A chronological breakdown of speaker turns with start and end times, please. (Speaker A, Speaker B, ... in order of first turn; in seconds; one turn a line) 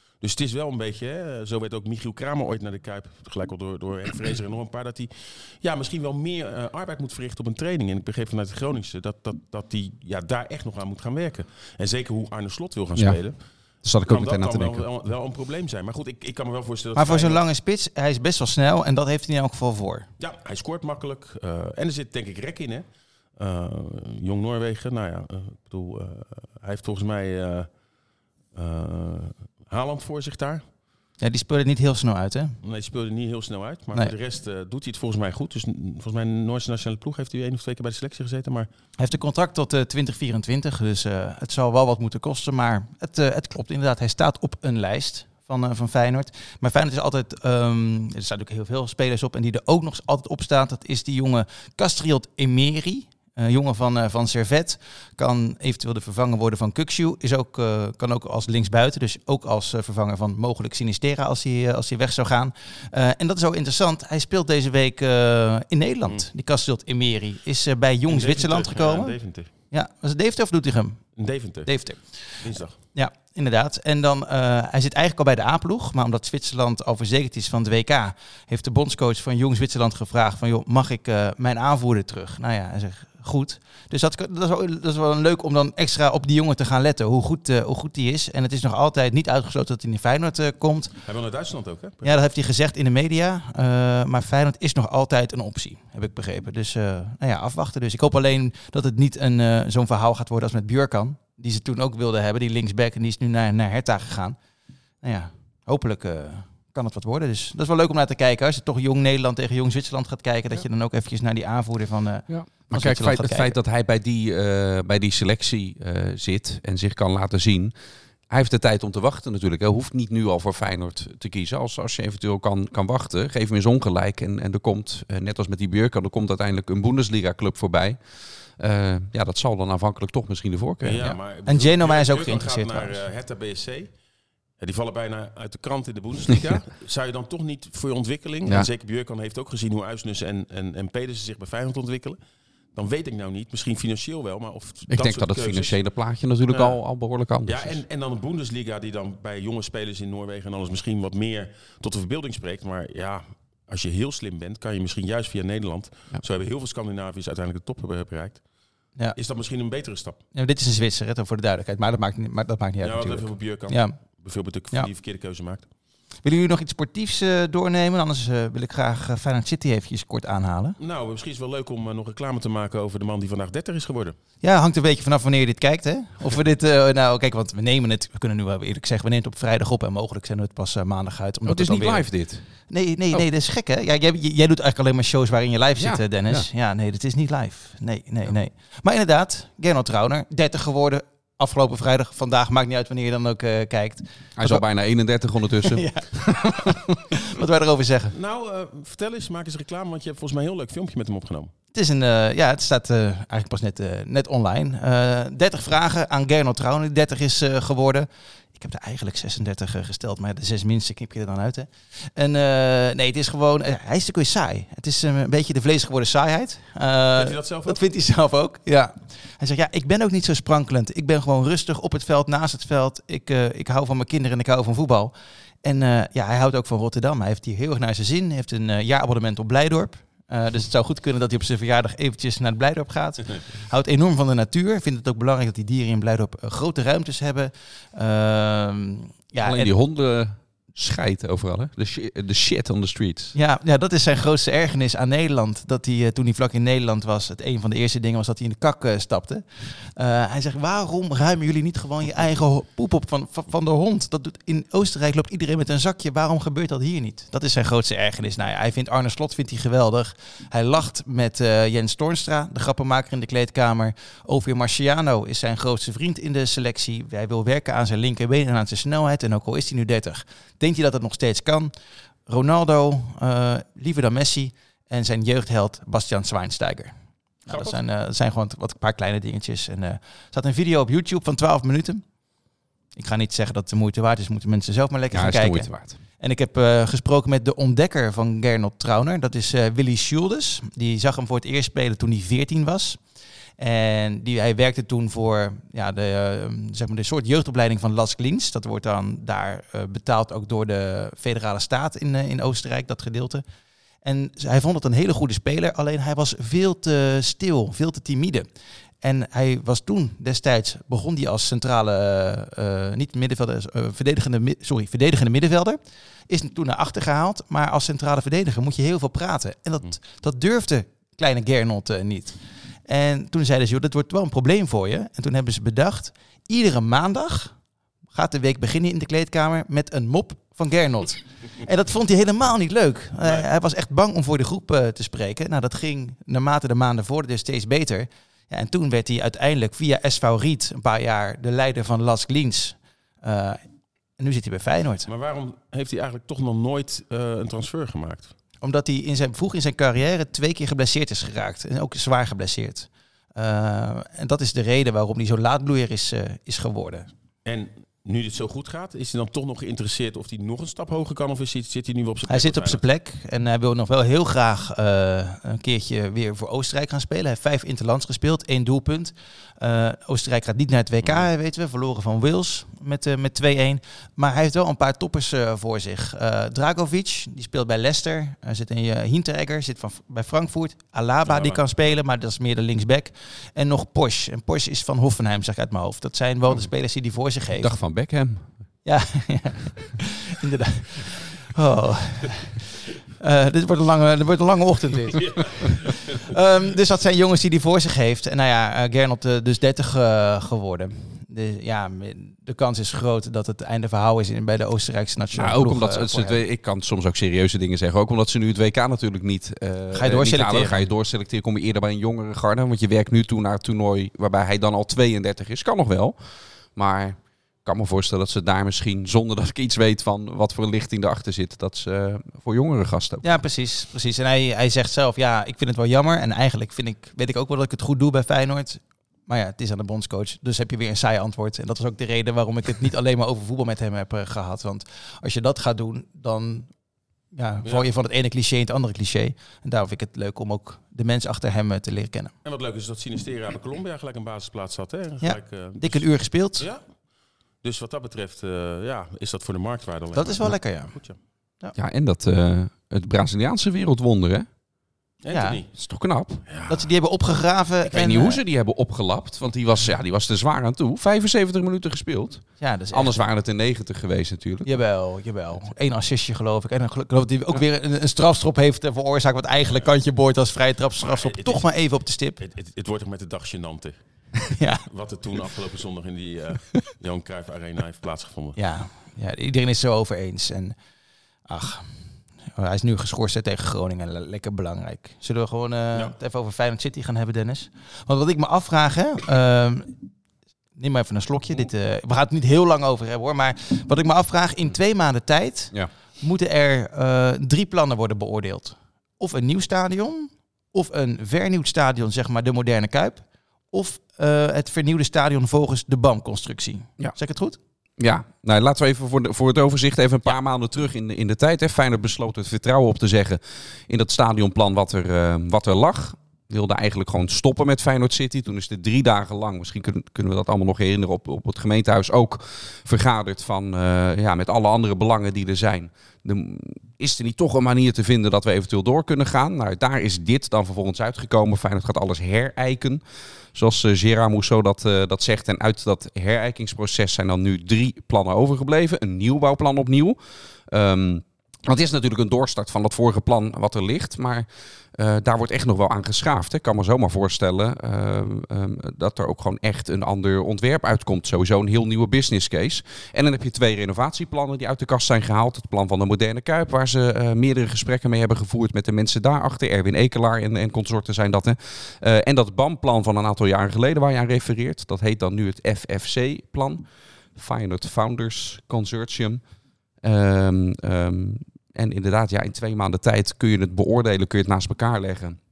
Speaker A: 0.2-13.4
Speaker B: 13.8-14.8
Speaker A: 14.1-17.4
Speaker C: 16.9-20.1
Speaker A: 20.2-27.7
Speaker A: 28.5-30.6
Speaker C: 31.2-32.5
Speaker A: 32.6-38.7
Speaker C: 39.0-90.9
Speaker A: 68.1-69.5
Speaker A: 71.2-72.8
Speaker A: 91.0-92.1
Speaker C: 92.0-104.4
Speaker C: 105.0-113.5
Speaker B: 112.3-117.7
Speaker B: 118.3-131.1
Speaker A: 130.8-133.9
Speaker C: 131.1-133.0
Speaker A: 134.6-142.2
Speaker A: 142.7-145.8
Speaker B: 144.9-147.8
Speaker A: 146.5-146.8
Speaker A: 147.4-158.4
Speaker A: 159.1-160.2
Speaker C: 160.3-164.0
Speaker A: 162.8-165.7
Speaker C: 166.2-170.8
Speaker A: 170.8-174.2
Speaker C: 174.4-182.1
Speaker B: 181.4-182.4
Speaker C: 182.7-194.7
Speaker B: 185.8-186.5
Speaker B: 194.4-196.2
Speaker C: 195.6-198.1
Speaker A: 198.1-201.5
Speaker C: 201.7-239.7
Speaker A: 217.2-217.8
Speaker B: 239.4-243.3
Speaker C: 243.3-271.7
Speaker C: 272.3-276.9
Speaker C: 277.4-282.1
Speaker A: 277.5-277.8
Speaker C: 282.9-293.0
Speaker B: 285.1-286.0
Speaker C: 293.6-303.4
Speaker C: 304.0-308.5
Speaker C: 309.0-327.6
Speaker C: 328.1-343.6
Speaker C: 344.2-345.1
Speaker A: 345.1-348.4
Speaker C: 348.6-357.1
Speaker A: 357.4-362.8
Speaker C: 362.3-387.7
Speaker A: 371.0-371.3
Speaker A: 381.2-381.6
Speaker B: 387.6-388.6
Speaker C: 388.9-406.4
Speaker A: 395.1-396.2
Speaker B: 405.3-416.2
Speaker C: 409.9-410.9
Speaker B: 416.7-423.2
Speaker C: 423.2-436.7
Speaker C: 437.3-442.3
Speaker A: 442.4-446.9
Speaker C: 445.2-446.7
Speaker A: 447.6-451.2
Speaker C: 450.1-451.7
Speaker B: 451.7-454.5
Speaker A: 455.2-455.7
Speaker C: 455.3-455.6
Speaker B: 455.8-456.4
Speaker A: 456.4-456.9
Speaker C: 456.7-458.4
Speaker B: 457.9-464.7
Speaker C: 462.6-463.2
Speaker C: 464.6-472.4
Speaker A: 471.0-471.6
Speaker A: 472.4-478.6
Speaker C: 474.6-474.8
Speaker C: 478.6-480.8
Speaker C: 481.5-489.9
Speaker C: 490.8-507.6
Speaker B: 508.0-533.0
Speaker B: 533.5-569.4
Speaker B: 570.0-575.4